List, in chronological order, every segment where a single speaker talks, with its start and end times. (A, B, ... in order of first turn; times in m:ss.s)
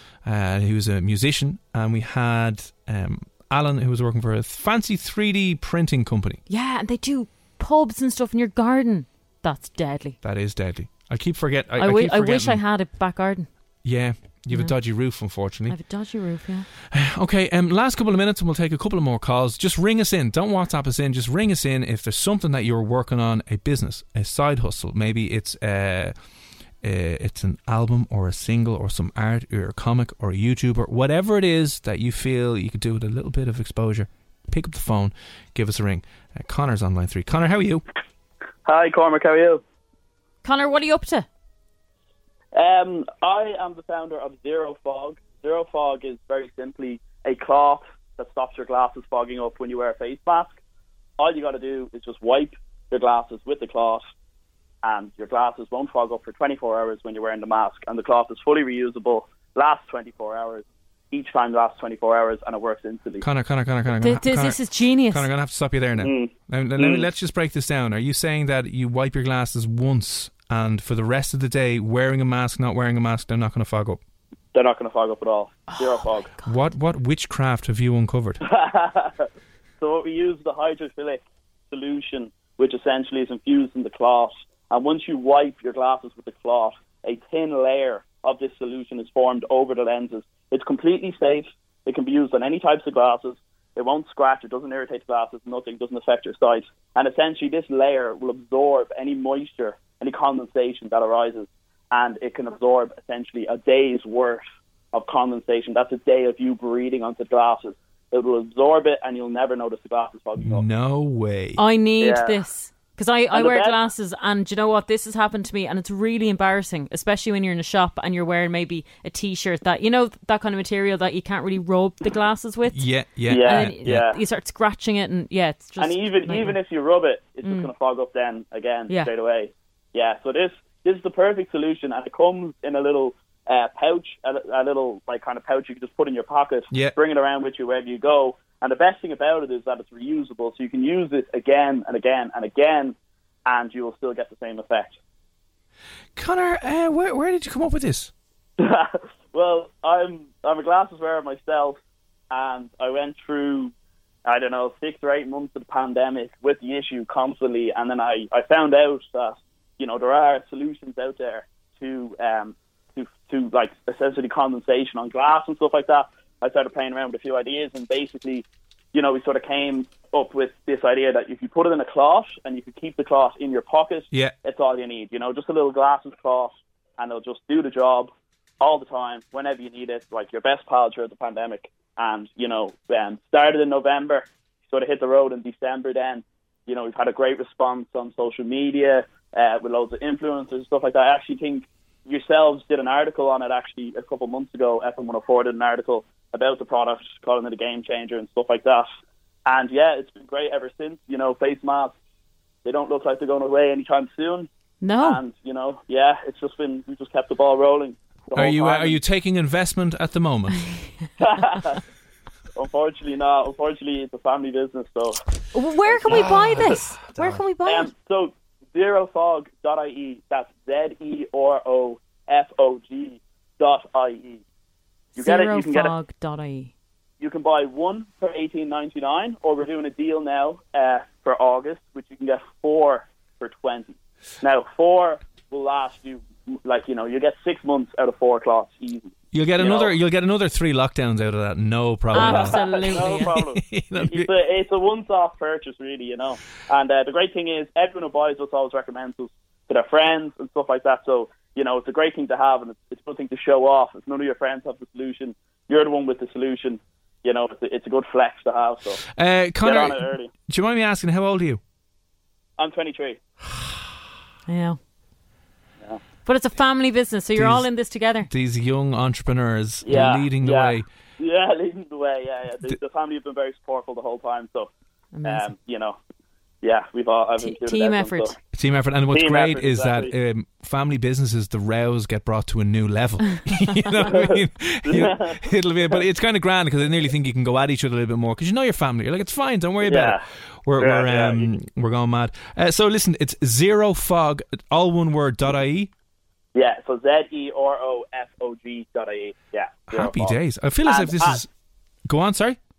0:00.2-0:06.4 A
0:06.5-0:10.2 B
0:10.2-0:12.6 A
0:11.8-0:13.5 B
0:13.8-0:15.8 A
0:14.5-0:14.8 B
0:15.7-0:16.7 B
0:16.9-0:26.1 A
0:26.8-0:37.8 A
0:38.6-0:39.6 C
0:40.4-0:41.3 B
0:42.5-0:50.6 C
0:51.2-0:54.0 C
0:54.8-1:03.2 C
1:03.2-1:14.0 A
1:04.0-1:05.3 B
1:06.0-1:07.0 C
1:14.5-1:16.3 C
1:15.7-1:16.6 B
1:16.4-1:18.4 A
1:18.4-1:19.3 C
1:19.8-1:50.6 C
1:50.4-1:51.6 A
1:51.6-2:06.6 B
1:52.0-1:52.3 C
1:53.3-1:53.7 C
2:02.7-2:04.0 A
2:03.3-2:04.2 C
2:05.8-2:22.9 C
2:07.4-2:07.7 B
2:23.4-2:25.0 C
2:26.2-2:28.1 A
2:28.6-2:31.8 C
2:32.3-2:33.7 C
2:34.2-3:18.9 C
3:19.4-3:21.9 C
3:22.6-3:24.5 C
3:24.8-3:25.2 B
3:25.0-3:29.0 C
3:28.3-3:30.7 A
3:31.2-3:31.8 C
3:32.6-3:35.2 C
3:35.5-3:37.9 B
3:35.8-3:36.6 C
3:36.1-3:37.4 A
3:37.6-3:44.4 C
3:45.2-3:46.7 B
3:45.2-3:45.9 C
3:47.2-3:59.9 C
3:59.3-4:04.3 A
4:02.1-4:03.4 B
4:02.1-4:19.0 C
4:19.1-4:21.6 A
4:19.6-4:20.3 C
4:22.6-4:23.2 C
4:24.5-4:24.8 B
4:26.2-4:28.3 B
4:27.4-4:27.7 A
4:28.2-4:30.8 A
4:29.8-4:34.7 C
4:35.1-4:35.5 B
4:35.2-4:36.0 C
4:36.6-4:38.4 C
4:37.4-4:38.3 B
4:38.5-4:55.9 A
4:39.1-4:40.1 C
4:44.0-4:45.4 C
4:49.8-4:50.2 C
4:50.8-4:51.5 C
4:56.5-5:01.4 C
4:59.9-5:01.5 A
5:02.0-5:02.6 A